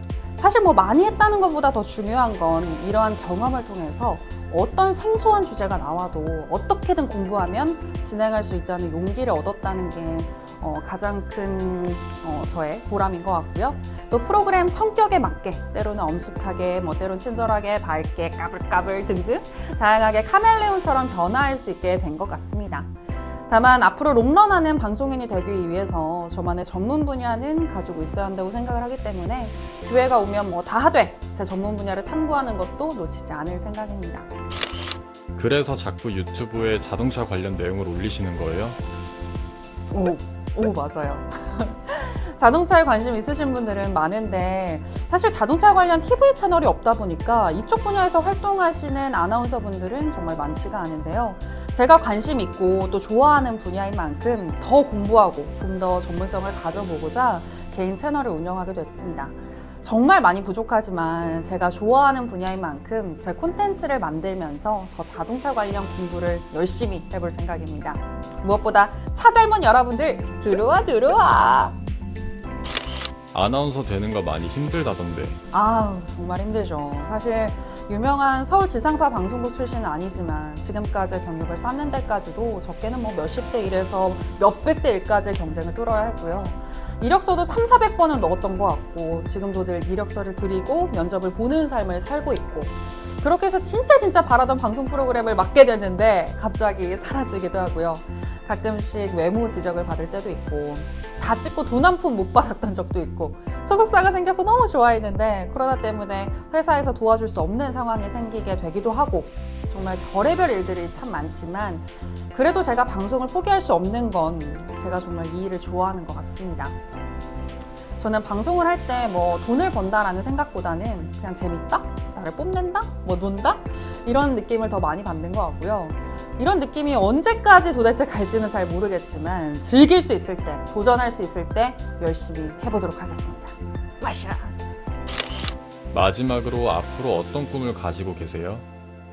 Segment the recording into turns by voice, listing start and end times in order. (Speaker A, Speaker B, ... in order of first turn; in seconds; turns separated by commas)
Speaker A: 0.4-22.9, Speaker A: 23.5-34.3, Speaker B: 35.4-38.8, Speaker A: 39.9-71.8, Speaker B: 73.3-75.4, Speaker A: 75.5-116.8, Speaker A: 118.0-134.5, Speaker B: 135.9-138.6